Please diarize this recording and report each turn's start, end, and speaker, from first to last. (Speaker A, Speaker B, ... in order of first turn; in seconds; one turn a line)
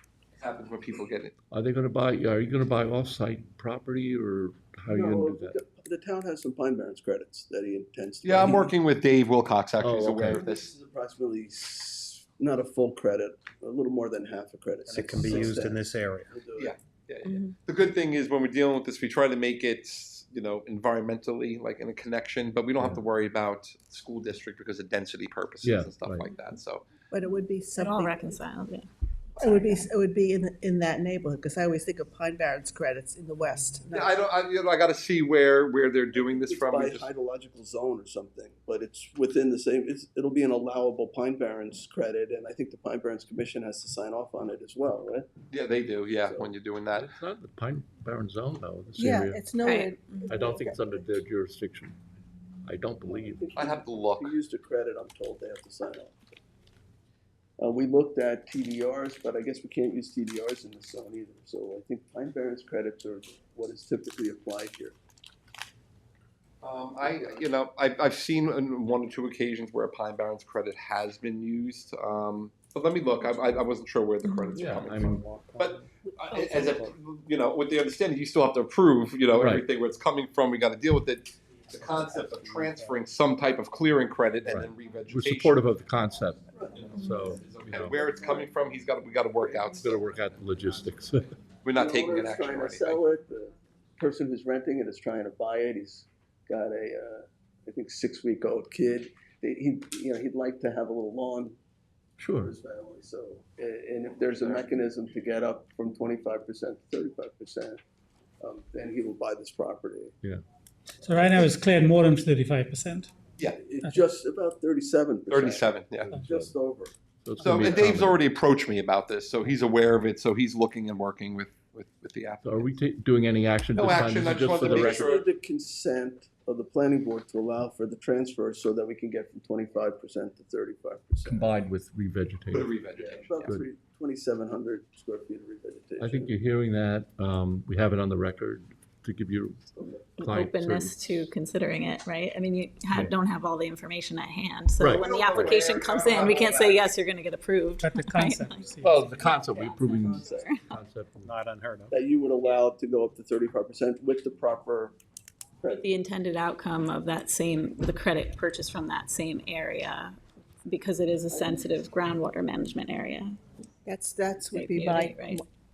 Speaker A: 0.4-1.3
Speaker B: 1.5-5.5
Speaker C: 4.9-8.7
Speaker A: 8.2-10.7
Speaker B: 9.8-10.4
Speaker C: 10.3-16.7
Speaker D: 14.9-16.3
Speaker A: 16.6-26.8
Speaker B: 25.6-26.3
Speaker E: 27.1-28.4
Speaker F: 27.8-28.9
Speaker E: 29.4-34.2
Speaker A: 33.9-37.1
Speaker C: 36.1-45.3
Speaker A: 45.5-47.1
Speaker B: 46.9-49.4
Speaker E: 48.9-50.8
Speaker F: 49.6-49.9
Speaker B: 50.3-52.0
Speaker B: 52.6-53.4
Speaker C: 53.0-56.4
Speaker A: 53.5-54.3
Speaker C: 57.6-65.0
Speaker A: 66.6-85.6
Speaker B: 74.5-75.6
Speaker E: 76.3-76.9
Speaker B: 79.3-79.7
Speaker D: 82.0-82.8
Speaker B: 84.5-86.4
Speaker C: 86.5-86.8
Speaker A: 86.7-90.0
Speaker B: 86.9-88.0
Speaker B: 89.7-91.4
Speaker A: 91.6-93.0
Speaker C: 91.7-101.6
Speaker B: 102.2-102.5
Speaker C: 102.4-107.8
Speaker C: 108.4-110.1
Speaker G: 111.0-113.1
Speaker C: 113.5-116.9
Speaker A: 115.3-116.1
Speaker B: 116.0-116.5
Speaker B: 117.2-118.2
Speaker A: 117.4-122.7
Speaker B: 122.4-125.1
Speaker A: 123.8-125.2
Speaker C: 124.5-131.5
Speaker B: 131.2-132.7
Speaker A: 132.5-133.4
Speaker C: 133.0-136.3
Speaker B: 136.0-141.2
Speaker F: 140.2-148.6
Speaker B: 144.8-145.6
Speaker C: 145.0-146.8
Speaker A: 145.2-146.8
Speaker G: 147.9-148.9
Speaker B: 148.8-151.3
Speaker E: 149.3-149.8
Speaker F: 149.4-150.6
Speaker C: 149.9-150.5
Speaker D: 151.2-151.9
Speaker C: 151.9-154.9
Speaker C: 155.6-155.9
Speaker F: 155.8-163.4
Speaker C: 161.3-161.6
Speaker E: 163.8-165.4
Speaker F: 164.5-165.4